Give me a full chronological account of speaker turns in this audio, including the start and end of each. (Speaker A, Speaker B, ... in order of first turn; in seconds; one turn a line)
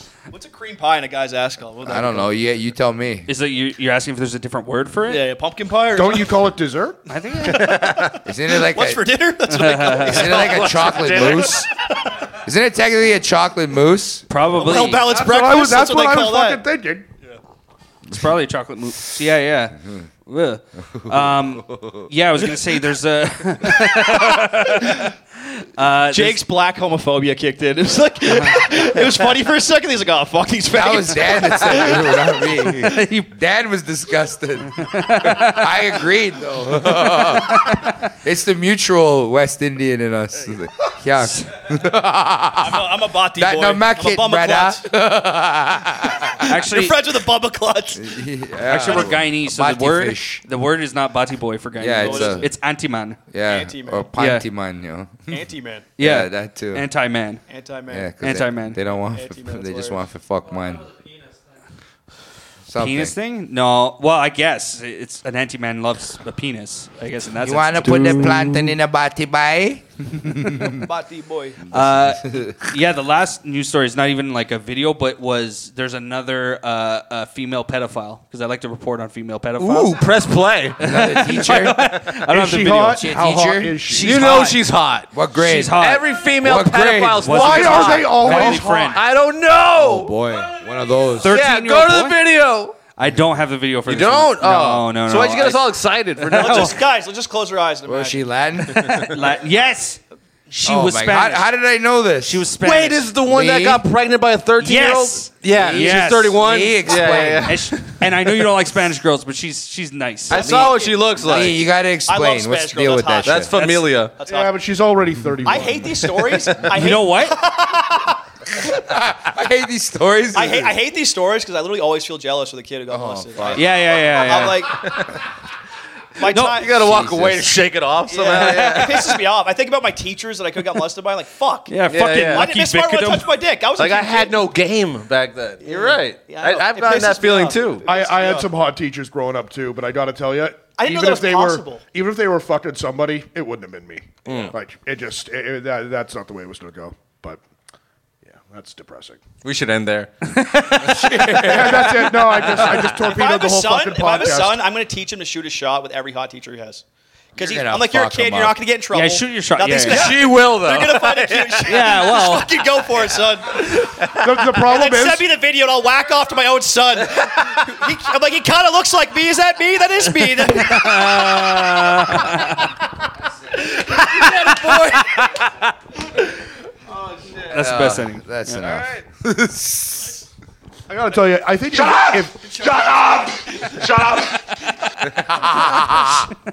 Speaker A: 0.3-2.4
Speaker B: 1.8-3.3
Speaker C: 3.3-5.2
Speaker A: 5.1-6.4
Speaker D: 5.9-7.0
Speaker C: 7.1-8.0
Speaker A: 7.5-12.1
Speaker B: 8.2-9.0
Speaker C: 9.5-10.4
Speaker B: 10.1-11.7
Speaker B: 12.4-15.0
Speaker C: 14.3-15.0
Speaker A: 14.6-16.6
Speaker D: 15.1-17.1
Speaker C: 18.1-26.4
Speaker B: 20.9-22.1
Speaker A: 26.1-32.4
Speaker C: 28.3-28.6
Speaker B: 30.7-46.5
Speaker C: 32.9-33.3
Speaker C: 34.8-35.6
Speaker C: 37.0-38.0
Speaker A: 42.6-44.9
Speaker A: 46.4-48.1
Speaker C: 46.5-47.0
Speaker B: 47.9-50.4
Speaker C: 48.7-53.2
Speaker B: 51.8-52.5
Speaker A: 52.0-52.5
Speaker B: 53.3-55.5
Speaker A: 53.5-54.1
Speaker C: 54.2-54.5
Speaker A: 55.3-55.9
Speaker C: 56.0-57.4
Speaker B: 56.0-56.9
Speaker A: 57.5-58.1
Speaker B: 57.9-60.9
Speaker C: 58.2-58.8
Speaker A: 59.1-60.0
Speaker B: 62.7-63.1
Speaker C: 62.8-68.3
Speaker B: 67.4-70.9
Speaker A: 70.8-71.6
Speaker B: 71.7-72.7
Speaker C: 71.7-80.0
Speaker E: 79.6-80.8
Speaker C: 80.8-83.1
Speaker B: 80.8-81.9
Speaker D: 82.3-84.5
Speaker B: 82.6-83.8
Speaker C: 83.9-84.6
Speaker E: 84.0-85.1
Speaker B: 85.1-85.8
Speaker C: 85.3-86.2
Speaker E: 85.8-90.1
Speaker B: 86.4-87.4
Speaker C: 86.7-89.0
Speaker D: 87.3-89.0
Speaker B: 88.2-88.6
Speaker B: 89.7-91.3
Speaker C: 91.2-92.2
Speaker E: 91.3-92.8
Speaker C: 93.0-95.7
Speaker E: 93.9-96.8
Speaker C: 96.2-96.7
Speaker A: 96.3-99.1
Speaker B: 97.9-99.0
Speaker C: 99.0-101.5
Speaker B: 100.7-102.5
Speaker C: 102.2-103.1
Speaker E: 102.6-108.0
Speaker B: 103.2-103.8
Speaker C: 104.6-106.4
Speaker B: 105.5-107.6
Speaker C: 107.5-110.7
Speaker A: 110.3-111.2
Speaker E: 110.3-111.6
Speaker B: 111.2-113.5
Speaker A: 112.1-114.5
Speaker E: 113.2-114.2
Speaker D: 114.2-116.1
Speaker A: 115.4-118.2
Speaker C: 116.7-117.4
Speaker B: 118.5-120.7
Speaker A: 120.3-124.9
Speaker B: 122.9-123.8
Speaker C: 123.5-124.6
Speaker E: 124.7-125.1
Speaker A: 126.2-126.9
Speaker E: 126.4-129.2
Speaker B: 126.7-127.5
Speaker A: 128.1-134.4
Speaker C: 128.3-129.0
Speaker C: 131.7-133.3
Speaker E: 131.9-132.5
Speaker E: 133.8-137.8
Speaker A: 135.6-138.5
Speaker D: 137.9-147.4
Speaker A: 140.8-141.8
Speaker E: 144.2-144.5
Speaker D: 148.2-149.2
Speaker E: 149.4-150.1
Speaker C: 150.3-151.8
Speaker B: 150.9-151.9
Speaker D: 151.4-154.6
Speaker A: 152.8-156.8
Speaker A: 157.3-171.5
Speaker B: 157.4-158.6
Speaker C: 158.9-160.2
Speaker E: 159.8-161.8
Speaker C: 161.7-162.5
Speaker D: 164.2-165.2
Speaker C: 170.5-172.7
Speaker E: 173.9-175.1
Speaker C: 174.2-174.9
Speaker E: 176.9-177.5
Speaker C: 177.5-178.6
Speaker B: 177.5-180.2
Speaker E: 178.6-179.0
Speaker D: 180.9-182.5
Speaker A: 182.4-183.0
Speaker B: 185.2-186.3